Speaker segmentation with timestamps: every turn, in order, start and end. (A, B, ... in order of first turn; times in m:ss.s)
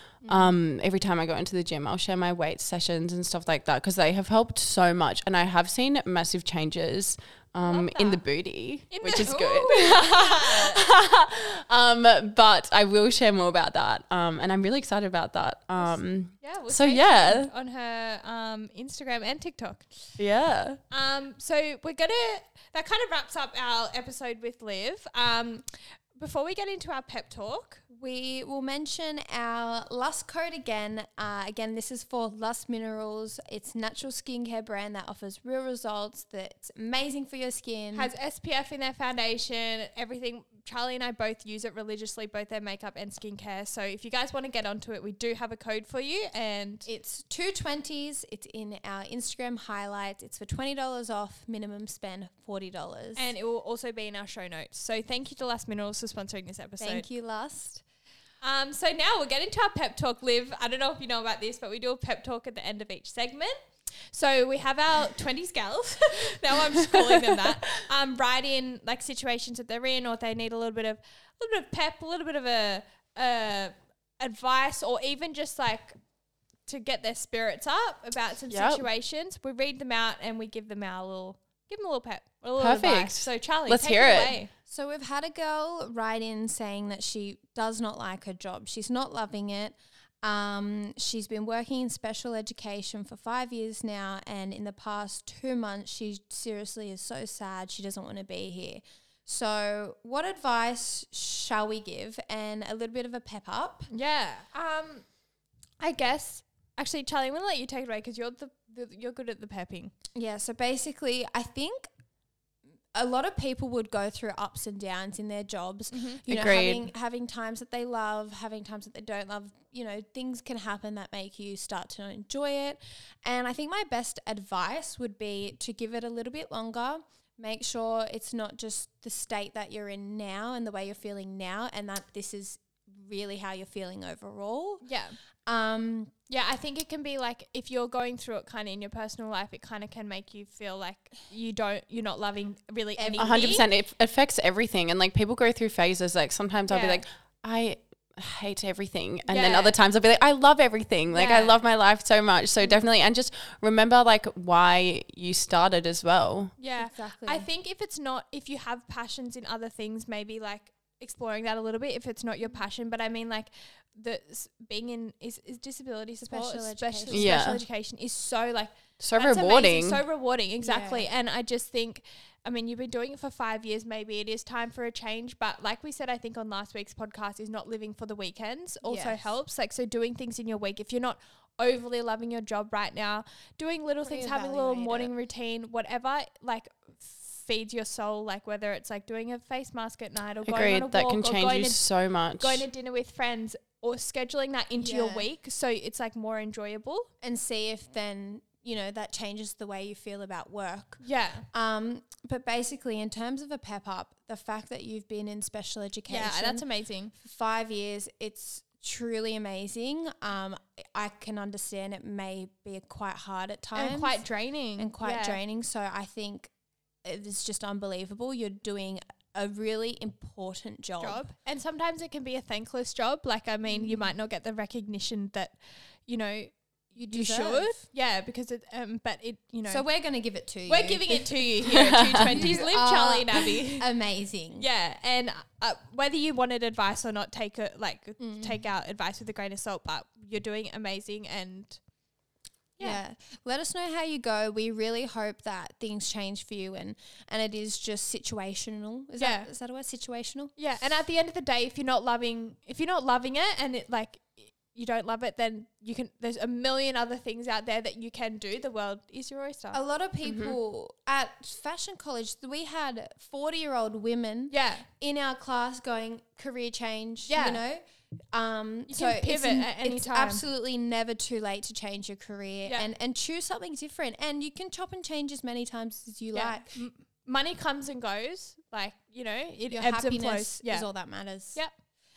0:00.2-0:00.5 A
0:00.3-0:17.5 B
0:07.6-0:08.2 C
0:08.9-0:10.8 C
0:15.8-0:19.9 C
0:20.2-0:20.8 B
0:20.9-0:27.8 C
0:27.9-0:38.1 A
0:37.9-0:46.9 C
0:46.9-0:53.3 A
0:53.2-0:57.1 C
0:56.8-0:57.8 A
0:58.4-1:03.6 C
1:04.1-1:16.0 C
1:06.9-1:07.4 B
1:16.7-1:24.5 C
1:18.5-1:18.8 B
1:22.6-1:24.4 B
1:24.7-1:43.9 A
1:43.9-1:45.0 C
1:45.8-1:49.9 C
1:50.2-1:51.9 A
1:52.9-2:14.8 A
1:55.9-1:56.2 C
1:56.3-1:56.9 B
2:14.8-2:15.2 C
2:15.5-2:16.1 A
2:16.3-2:23.7 C
2:23.0-2:23.6 A
2:23.2-2:36.6 B
2:26.7-2:27.0 C
2:29.3-2:29.8 C
2:31.1-2:31.6 C
2:36.6-3:11.8 C
2:36.8-2:37.5 A
2:46.2-2:47.6 A
2:47.1-2:47.6 B
2:49.0-2:50.0 B
2:50.6-2:51.1 A
2:58.8-2:59.3 A
3:04.0-3:05.1 A
3:10.4-3:12.7 B
3:12.4-3:17.1 C
3:14.8-3:15.3 A
3:17.2-3:26.7 A
3:21.0-3:21.5 C
3:26.1-3:27.1 C
3:27.2-3:34.2 A
3:33.8-3:35.4 C
3:34.8-3:36.5 A
3:37.0-3:41.2 A
3:41.0-3:45.6 C
3:43.7-3:44.1 A
3:46.1-3:49.8 C
3:47.0-3:47.8 A
3:49.7-3:51.5 A
3:50.7-3:53.9 C
3:51.7-3:52.5 B
3:52.2-3:54.7 A
3:54.6-4:01.8 C
3:58.2-3:58.6 A
4:02.8-4:10.6 A
4:09.2-4:09.5 C
4:10.6-4:19.8 C
4:19.7-4:27.8 A
4:20.2-4:20.6 B
4:24.5-4:24.9 C
4:27.3-4:27.6 C
4:28.3-4:36.8 A
4:28.9-4:30.4 C
4:36.3-4:40.9 C
4:39.7-4:41.6 A